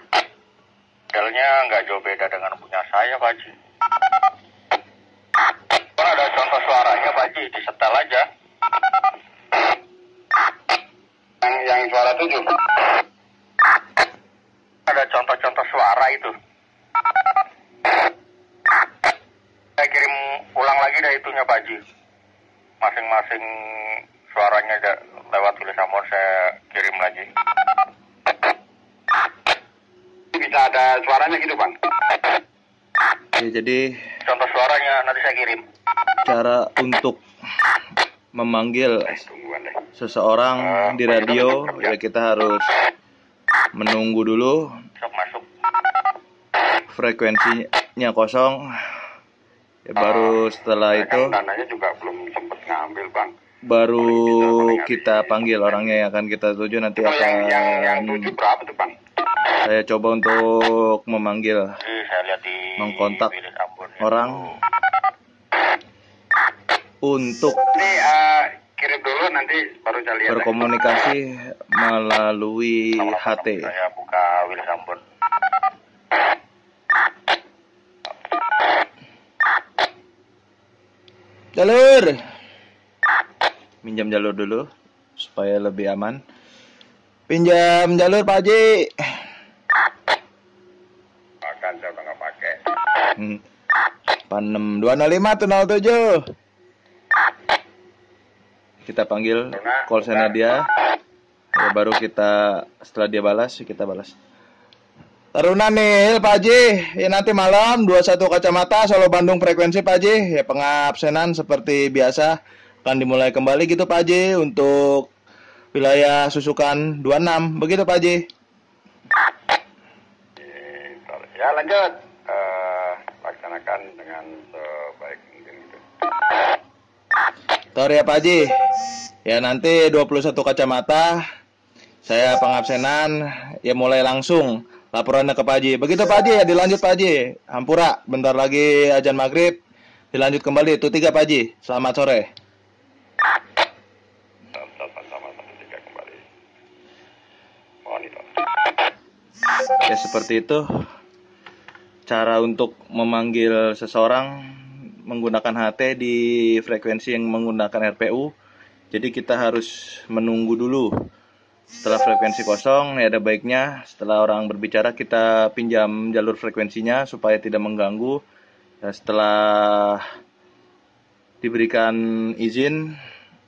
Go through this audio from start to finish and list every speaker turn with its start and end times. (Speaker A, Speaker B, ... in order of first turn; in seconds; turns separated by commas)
Speaker A: 1.1-3.5, Speaker A: 6.0-8.2, Speaker B: 11.4-12.6, Speaker A: 14.9-16.3, Speaker A: 19.8-21.8, Speaker A: 22.8-27.3, Speaker B: 30.3-31.8, Speaker C: 33.4-33.8, Speaker A: 34.3-35.6, Speaker C: 36.2-37.2, Speaker C: 38.4-39.2, Speaker B: 39.0-39.8, Speaker C: 40.0-42.7, Speaker B: 40.6-42.0, Speaker C: 43.8-44.6, Speaker A: 45.0-45.5, Speaker C: 46.9-48.6, Speaker C: 49.9-51.4, Speaker B: 50.0-53.3, Speaker C: 53.7-58.3, Speaker B: 54.0-55.7, Speaker B: 57.0-59.0, Speaker C: 59.6-61.8, Speaker A: 61.8-64.3, Speaker C: 62.8-63.3, Speaker C: 64.0-64.4, Speaker C: 67.0-67.6, Speaker B: 67.7-70.6, Speaker C: 70.3-73.7, Speaker A: 73.0-75.0, Speaker C: 81.5-82.2, Speaker C: 83.8-84.7, Speaker C: 85.2-86.2, Speaker C: 87.3-88.9, Speaker B: 91.4-92.6, Speaker C: 94.3-96.2, Speaker C: 98.8-100.7, Speaker B: 99.5-100.3, Speaker C: 101.5-104.2, Speaker C: 105.3-115.1, Speaker C: 115.7-118.2, Speaker B: 120.4-125.8, Speaker C: 127.8-128.6, Speaker C: 129.3-131.2, Speaker C: 132.1-139.6, Speaker C: 140.1-142.3, Speaker B: 144.5-146.2, Speaker B: 147.9-148.4, Speaker C: 149.8-150.6, Speaker C: 152.1-154.3, Speaker C: 155.1-158.3, Speaker C: 158.9-160.9, Speaker C: 161.8-168.2, Speaker C: 168.8-170.0, Speaker C: 171.4-172.9